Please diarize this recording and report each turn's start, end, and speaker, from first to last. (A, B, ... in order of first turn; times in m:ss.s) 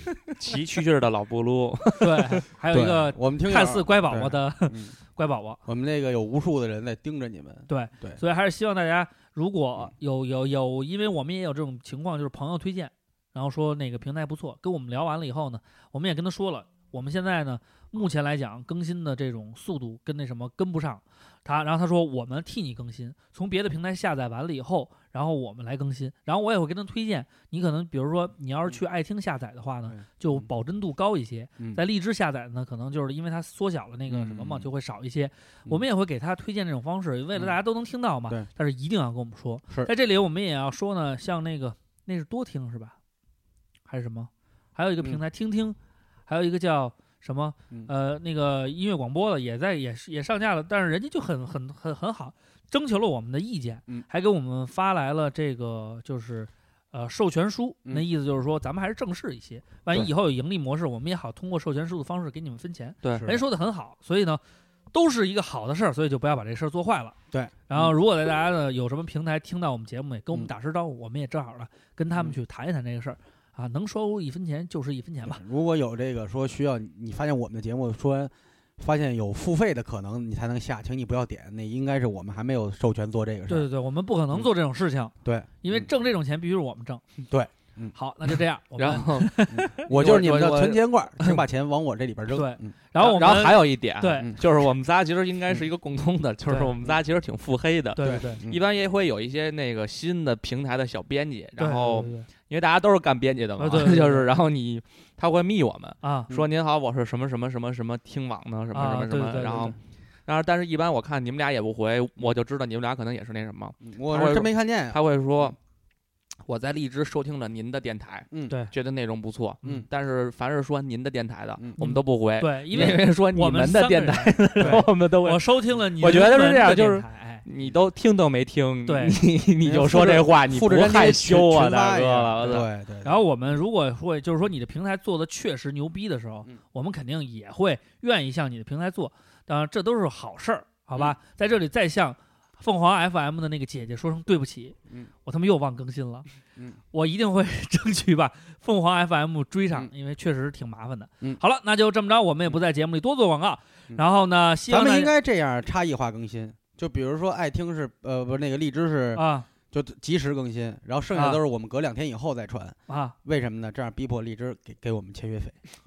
0:00.2-0:02.4 A
0:02.0-0:05.6 B
0:02.7-0:05.0 C
0:05.7-0:08.2 C
0:07.7-0:43.0 B
0:29.9-0:30.5 C
0:34.1-0:34.7 C
0:43.9-1:04.4 B
1:03.1-1:03.4 C
1:04.9-1:07.2 B
1:07.3-1:08.0 C
1:07.7-1:15.4 B
1:15.3-1:23.7 C
1:23.5-1:27.0 B
1:25.2-1:25.9 C
1:27.3-1:28.0 C
1:28.0-1:29.9 B
1:28.8-1:31.4 A
1:29.5-1:32.8 C
1:32.3-1:34.3 B
1:33.0-1:49.8 A
1:36.5-1:36.7 B
1:38.0-1:38.4 B
1:38.0-1:38.6 C
1:41.6-1:42.3 B
1:43.6-1:44.3 B
1:46.0-1:46.3 B
1:48.7-1:49.8 B
1:50.3-1:55.6 A
1:53.8-1:55.5 C
1:56.4-2:12.7 A
2:01.8-2:07.4 B
2:04.6-2:04.9 C
2:08.9-2:09.2 B
2:09.6-2:13.2 C
2:12.5-2:26.3 B
2:26.9-2:35.1 B
2:34.7-2:45.6 C
2:39.2-2:39.5 B
2:41.1-2:41.4 B
2:42.9-2:43.2 B